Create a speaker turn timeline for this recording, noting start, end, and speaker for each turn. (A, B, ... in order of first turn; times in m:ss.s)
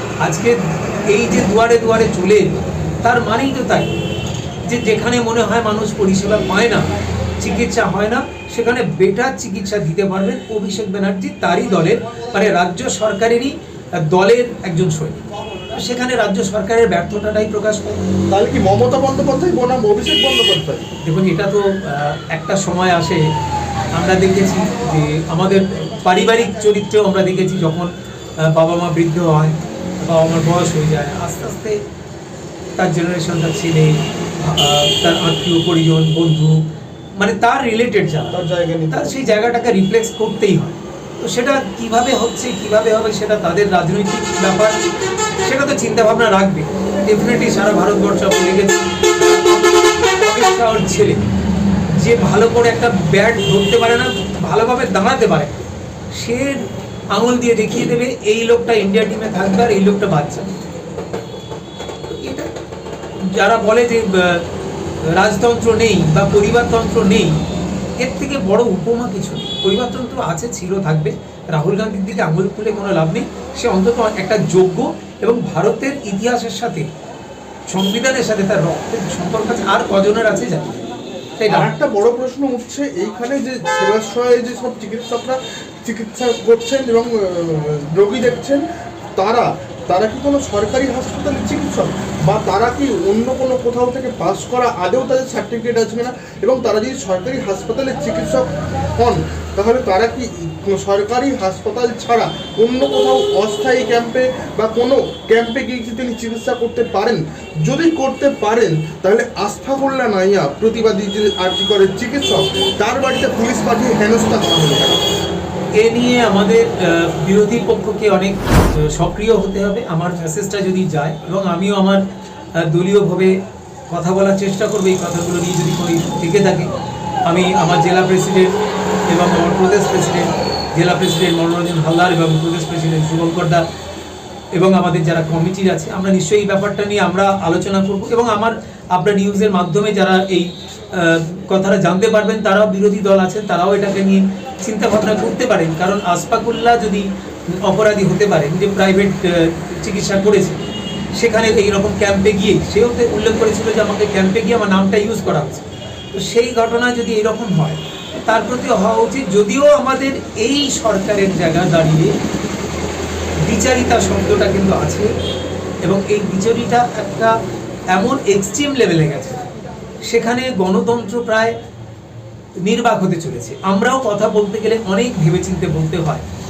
0:00.2-0:04.0 A
0:04.7-0:06.9 A
0:07.4-0:18.0 A
0:18.3-0:20.9 B
0:21.0-0:23.3 A
0:24.0-0:31.8 A
0:32.8-0:36.6 A
0:37.2-0:44.8 A
0:38.3-0:39.2 B
0:45.4-0:51.2 A
0:51.9-1:00.6 A
1:02.1-1:02.5 A
1:03.2-1:04.5 A
1:05.1-1:07.4 A
1:08.0-1:16.9 A
1:17.7-1:20.8 A
1:21.4-1:21.7 A
1:21.5-1:28.6 B
1:29.2-1:55.2 B
1:55.8-2:02.0 A
2:02.6-2:03.4 A
2:03.9-2:06.7 A
2:07.2-2:08.5 A
2:09.1-2:13.6 A
2:14.5-2:42.2 A
2:43.4-2:45.1 A
2:45.8-2:47.4 A
2:47.9-2:49.5 A
2:50.0-2:51.6 A
2:52.6-2:56.3 A